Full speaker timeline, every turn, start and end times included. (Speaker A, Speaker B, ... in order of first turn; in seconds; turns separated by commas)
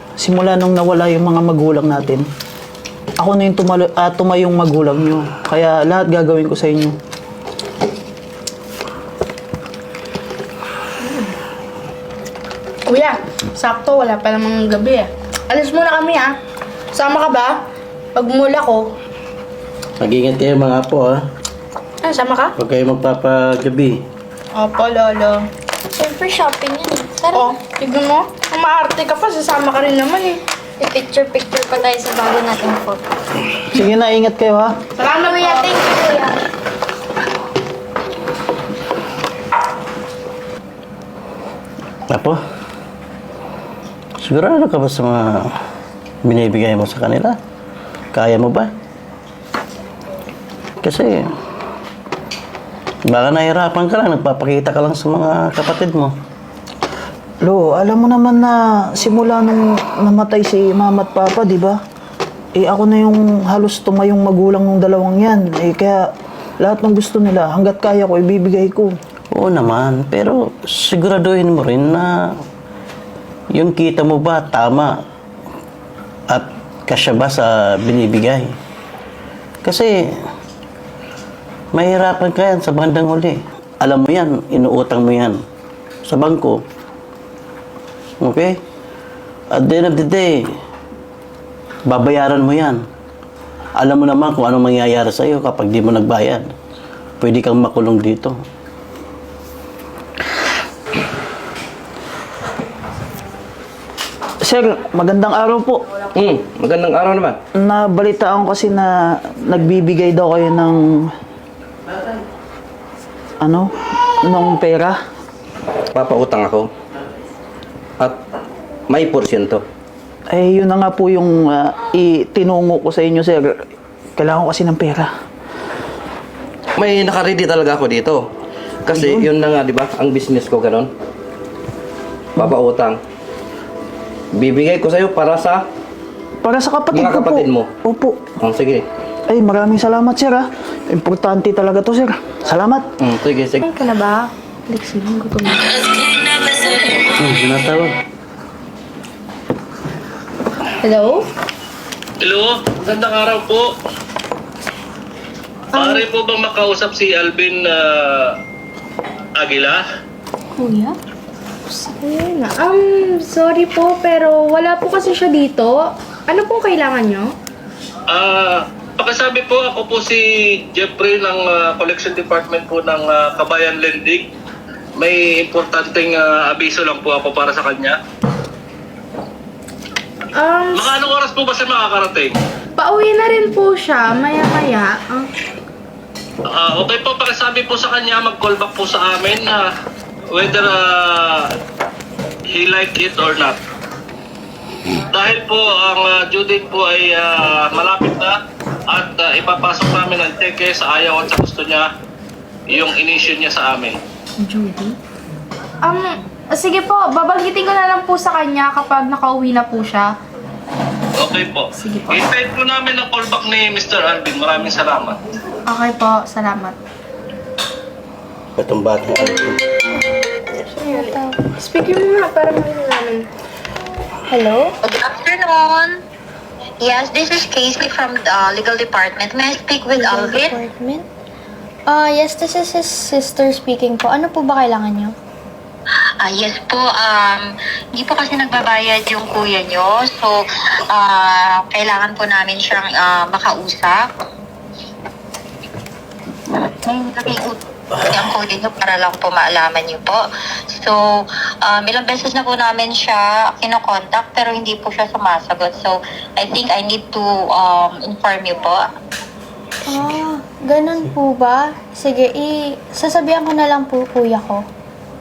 Speaker A: 0.2-2.2, Speaker A: 3.2-7.0, Speaker B: 11.0-11.3, Speaker B: 12.8-16.3, Speaker B: 16.9-17.6, Speaker B: 18.1-18.9, Speaker C: 20.0-21.2, Speaker B: 22.0-22.5, Speaker C: 22.6-24.0, Speaker B: 24.6-25.4, Speaker D: 25.9-27.4, Speaker B: 27.3-30.4, Speaker D: 30.8-33.0, Speaker A: 33.7-34.8, Speaker B: 35.0-36.3, Speaker D: 35.4-36.2, Speaker C: 42.1-42.4, Speaker C: 44.2-45.5, Speaker C: 46.2-47.4, Speaker C: 48.1-48.7, Speaker C: 50.8-51.2, Speaker C: 53.1-56.1, Speaker A: 57.4-61.8, Speaker A: 62.5-66.1, Speaker A: 66.6-68.9, Speaker C: 69.3-72.1, Speaker C: 73.5-75.0, Speaker C: 76.3-78.5, Speaker C: 79.6-80.0, Speaker C: 81.7-85.4, Speaker C: 86.1-86.6, Speaker C: 88.2-88.6, Speaker C: 89.5-90.4, Speaker C: 91.9-92.8, Speaker C: 93.8-96.5, Speaker C: 97.2-98.3, Speaker A: 104.4-105.8, Speaker E: 106.1-107.4, Speaker A: 107.6-111.1, Speaker A: 113.4-113.7, Speaker A: 114.2-115.0, Speaker E: 115.9-116.7, Speaker E: 118.9-119.6, Speaker A: 120.3-123.6, Speaker A: 124.2-125.1, Speaker E: 126.8-128.3, Speaker E: 128.8-130.9, Speaker A: 128.9-129.3, Speaker E: 132.3-133.0, Speaker E: 134.3-135.6, Speaker A: 136.4-138.2, Speaker E: 136.9-137.7, Speaker E: 138.4-138.8, Speaker A: 139.3-142.9, Speaker E: 143.0-143.6, Speaker B: 143.6-145.8, Speaker C: 147.2-147.9, Speaker B: 150.8-151.2, Speaker F: 152.2-153.7, Speaker B: 155.7-156.0, Speaker F: 155.8-158.3, Speaker F: 159.4-159.8, Speaker D: 160.6-160.9, Speaker B: 161.7-167.3, Speaker F: 168.1-174.3, Speaker F: 175.0-178.0, Speaker B: 180.3-181.0, Speaker F: 180.7-182.3, Speaker B: 182.8-185.3, Speaker F: 186.5-189.7, Speaker F: 190.3-191.4, Speaker F: 192.5-193.6, Speaker F: 195.1-198.4, Speaker F: 198.9-201.9, Speaker F: 202.7-204.0, Speaker B: 204.4-204.9, Speaker B: 205.8-210.1, Speaker F: 211.2-215.2, Speaker B: 211.8-212.2, Speaker B: 215.6-216.8, Speaker C: 218.6-219.7, Speaker B: 220.7-223.3, Speaker D: 220.8-221.3, Speaker D: 224.3-224.7, Speaker G: 224.8-226.0, Speaker G: 226.8-230.6, Speaker D: 229.9-231.1, Speaker D: 231.9-235.1, Speaker G: 236.2-240.4, Speaker G: 240.9-244.0, Speaker G: 246.8-250.2, Speaker G: 251.6-258.9, Speaker D: 259.8-264.6